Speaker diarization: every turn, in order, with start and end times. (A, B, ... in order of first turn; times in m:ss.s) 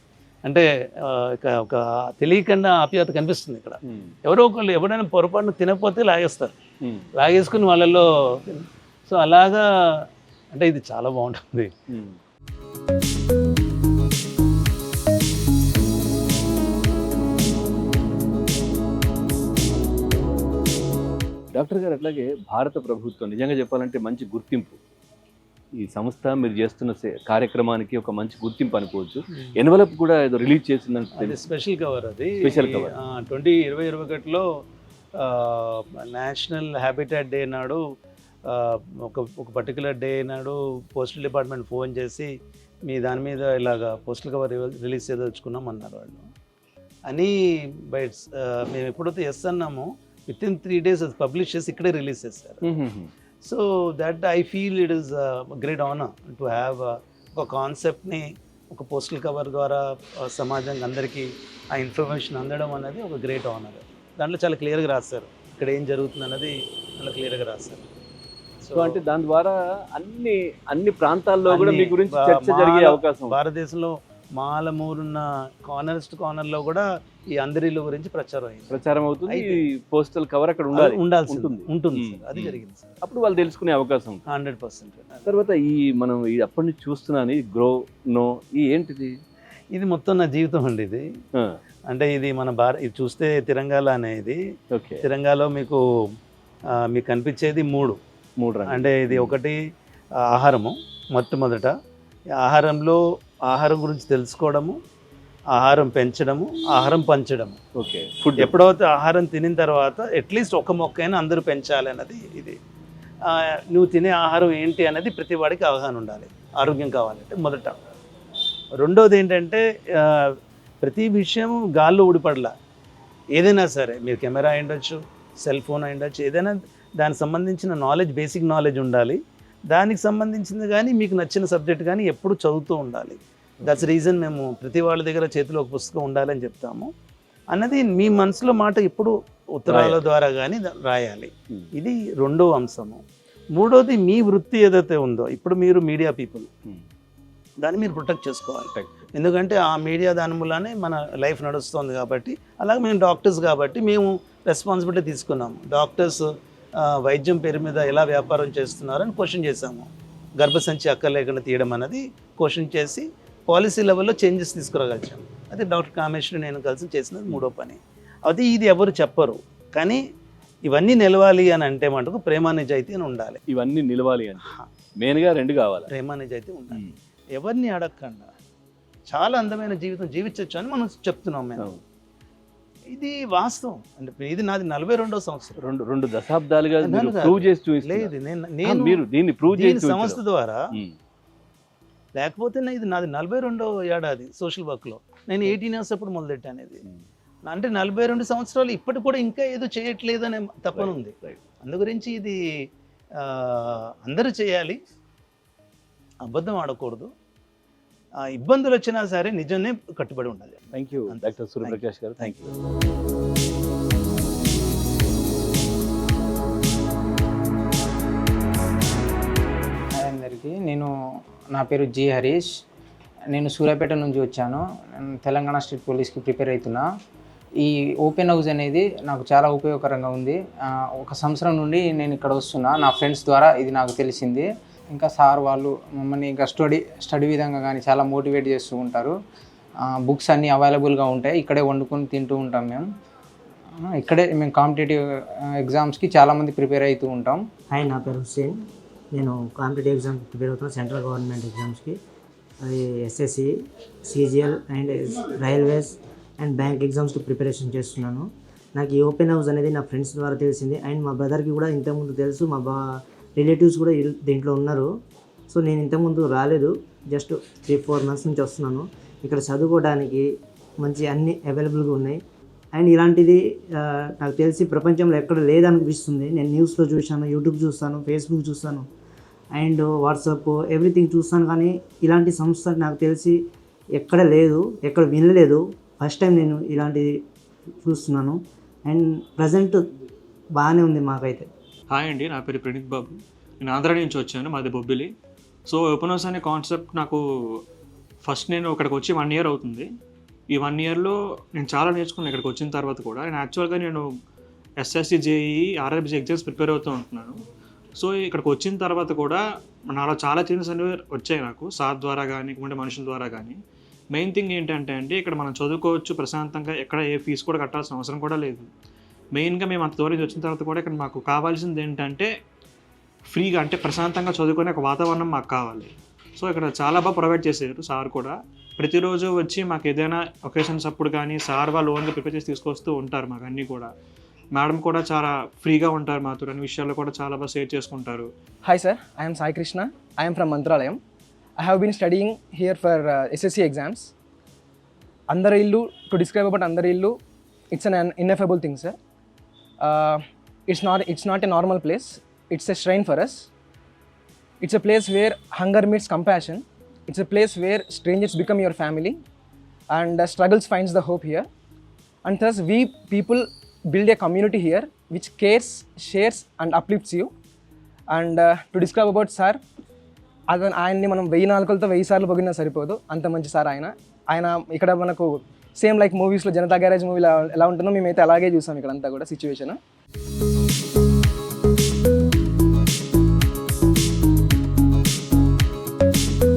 0:00.4-0:06.6 A
0:03.9-0:04.2 B
0:06.8-0:07.1 B
0:07.2-0:11.7 A
0:11.9-0:12.2 B
0:21.5-0:24.8 B
0:25.8-0:31.4 B
0:31.2-0:34.6 A
0:32.4-0:32.9 B
0:35.2-0:37.8 A
0:38.5-0:46.2 A
0:47.1-0:52.6 A
0:52.6-0:53.1 B
0:53.4-1:07.8 A
1:08.6-1:09.0 A
1:08.7-1:13.4 B
1:11.5-1:19.6 A
1:18.7-1:24.2 B
1:20.7-1:23.0 A
1:24.3-1:25.3 A
1:25.3-1:29.1 B
1:29.7-1:31.1 A
1:31.9-1:34.4 A
1:34.7-1:35.0 B
1:35.0-1:35.8 A
1:36.7-1:38.0 A
1:38.4-1:39.4 B
1:38.7-1:39.6 A
1:40.2-1:41.8 A
1:42.4-1:44.8 A
1:45.5-1:47.6 A
1:47.8-1:48.5 B
1:48.4-1:52.6 A
1:53.2-1:57.8 A
1:58.8-2:02.5 A
2:03.3-2:16.9 A
2:13.6-2:13.9 B
2:17.5-2:23.0 A
2:19.7-2:20.0 B
2:23.5-2:26.5 A
2:27.6-2:50.0 A
2:28.8-2:29.1 B
2:50.7-2:53.4 A
2:53.5-2:55.9 B
2:54.4-2:54.7 A
2:55.9-2:56.8 A
2:57.3-2:58.3 A
2:59.1-3:01.7 A
3:02.9-3:05.6 A
3:05.6-3:08.1 B
3:06.8-3:10.6 A
3:08.6-3:10.2 B
3:12.2-3:16.8 A
3:17.4-3:22.4 A
3:20.8-3:21.4 B
3:23.2-3:24.8 A
3:26.2-3:27.1 A
3:28.2-3:32.5 A
3:30.7-3:32.5 B
3:40.0-3:40.9 C
3:41.5-3:42.5 C
3:43.3-3:46.9 C
3:47.6-3:59.1 C
3:59.9-4:02.9 C
4:03.8-4:05.0 C
4:05.6-4:07.4 C
4:07.7-4:08.5 D
4:09.1-4:12.0 D
4:12.6-4:13.5 D
4:14.1-4:24.9 D
4:25.5-4:30.3 D
4:30.8-4:32.2 D
4:32.7-4:38.9 D
4:39.5-4:43.4 D
4:44.0-4:47.2 D
4:47.8-4:49.8 D
4:50.6-4:51.5 D
4:51.9-4:55.1 E
4:55.7-4:57.6 E
4:58.2-4:59.9 E
5:00.5-5:04.1 E
5:04.8-5:07.4 E
5:08.0-5:13.6 E
5:14.1-5:18.7 E
5:19.3-5:22.3 E
5:23.3-5:33.9 E
5:34.5-5:38.3 E
5:38.6-5:41.0 F
5:41.6-5:44.1 F
5:45.3-5:47.2 F
5:47.7-5:49.0 F
5:49.8-5:53.5 F
5:54.6-5:59.2 F
5:59.9-6:01.5 F
6:02.2-6:07.3 F
6:08.1-6:09.6 F
6:10.5-6:19.8 F